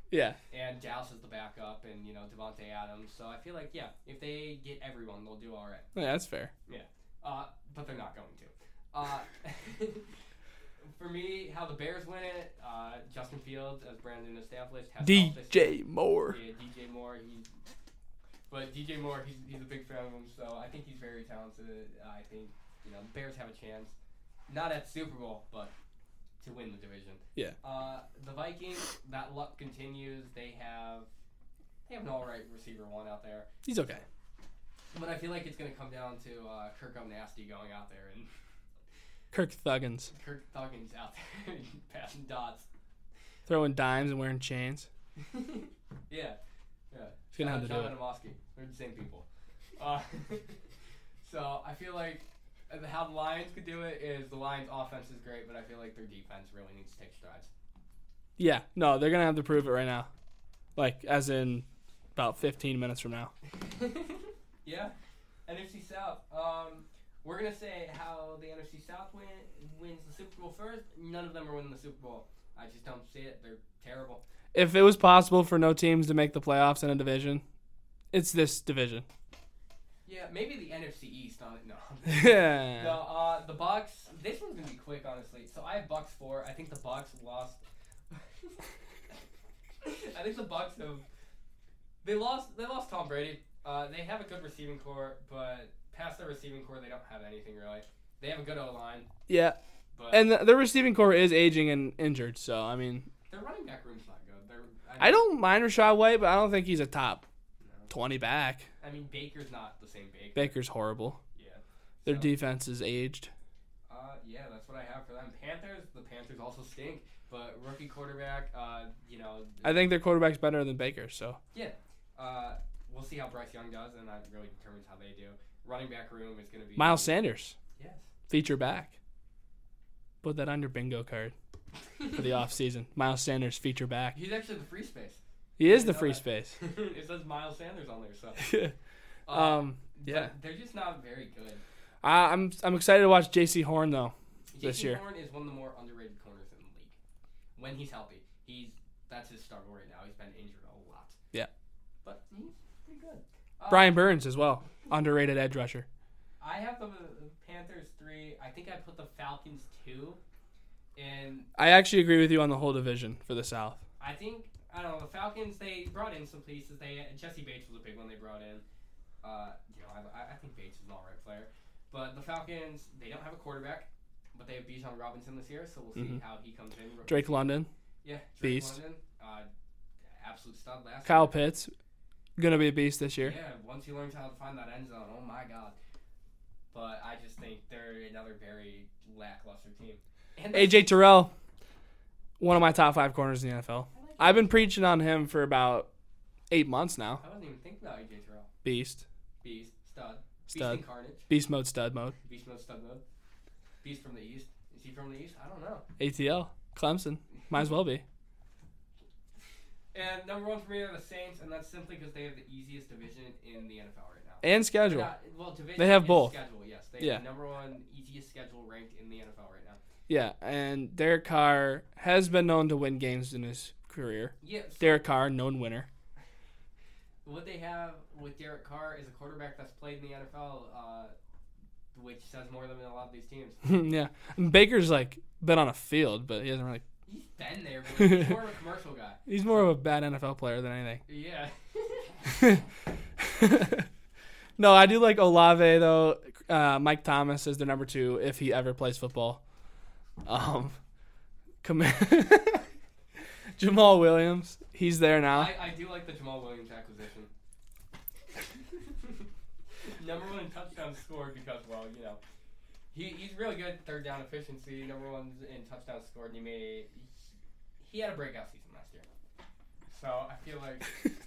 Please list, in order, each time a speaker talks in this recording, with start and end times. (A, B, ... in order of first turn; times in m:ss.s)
0:00.1-0:00.4 A
0:00.5-0:05.9 B
0:06.0-0:06.5 A
0:06.7-0:10.1 B
0:10.8-0:15.7 B
0:15.0-0:16.4 A
0:16.3-0:17.5 B
0:18.5-0:24.0 B
0:24.5-0:25.7 B
0:26.4-0:31.1 B
0:31.9-0:33.5 B
0:33.6-0:34.0 A
0:34.9-0:38.3 B
0:39.3-0:40.1 A
0:40.1-0:42.7 B
0:43.5-0:44.9 A
0:45.2-0:46.4 B
0:46.9-0:49.2 B
0:47.3-0:48.0 A
0:49.8-0:50.6 B
0:51.2-0:57.5 B
0:58.4-1:00.1 A
1:00.8-1:03.3 A
1:03.5-1:04.9 B
1:05.5-1:14.2 B
1:14.5-1:17.4 A
1:18.1-1:19.1 A
1:20.1-1:28.6 B
1:22.1-1:23.0 A
1:29.8-1:31.0 B
1:32.0-1:39.1 B
1:39.3-1:39.6 A
1:39.9-1:40.4 B
1:40.1-1:43.1 A
1:43.3-1:45.3 B
1:45.0-1:47.2 A
1:47.6-1:47.9 B
1:47.9-1:48.7 A
1:48.8-1:50.6 B
1:50.4-1:51.2 A
1:51.4-1:52.4 B
1:52.0-1:53.3 A
1:53.9-1:59.9 B
1:59.6-2:01.4 A
2:01.5-2:07.2 B
2:06.8-2:07.6 A
2:07.8-2:08.1 B
2:08.3-2:09.0 A
2:10.2-2:11.3 A
2:12.0-2:12.2 B
2:12.1-2:14.2 A
2:14.1-2:18.5 B
2:15.6-2:16.6 A
2:18.4-2:18.8 A
2:19.3-2:21.6 B
2:19.3-2:20.3 A
2:22.0-2:25.0 A
2:24.5-2:27.0 B
2:27.6-2:31.2 B
2:32.0-2:34.1 B
2:33.7-2:35.9 A
2:36.4-2:40.2 B
2:41.0-2:41.5 B
2:41.6-2:43.8 A
2:44.0-2:48.6 B
2:49.2-2:59.5 B
2:56.0-2:56.2 A
2:57.1-2:57.7 A
2:58.4-2:58.8 A
3:00.1-3:01.4 B
3:01.0-3:01.7 A
3:02.4-3:03.4 A
3:03.2-3:05.8 B
3:06.7-3:11.0 B
3:10.5-3:11.3 A
3:12.4-3:15.9 A
3:13.9-3:14.7 B
3:16.5-3:17.2 A
3:17.2-3:18.5 B
3:18.6-3:19.0 A
3:19.4-3:21.3 B
3:20.5-3:22.2 A
3:22.2-3:23.0 B
3:23.8-3:25.8 B
3:26.0-3:28.0 A
3:29.9-3:39.8 B
3:34.4-3:35.1 A
3:35.8-3:36.4 A
3:40.1-3:45.9 A
3:44.4-3:45.1 B
3:47.2-3:51.2 B
3:51.9-3:53.6 B
3:53.6-3:56.8 A
3:57.1-3:59.2 B
3:58.0-3:58.4 A
3:59.3-4:01.0 A
4:01.1-4:02.4 B
4:02.3-4:02.6 A
4:03.2-4:03.9 A
4:04.6-4:09.4 A
4:10.2-4:10.8 A
4:11.6-4:12.6 A
4:13.6-4:15.6 A
4:15.3-4:17.3 B
4:18.7-4:19.3 B
4:19.8-4:22.2 B
4:22.9-4:27.3 B
4:27.8-4:29.1 B
4:29.9-4:30.9 B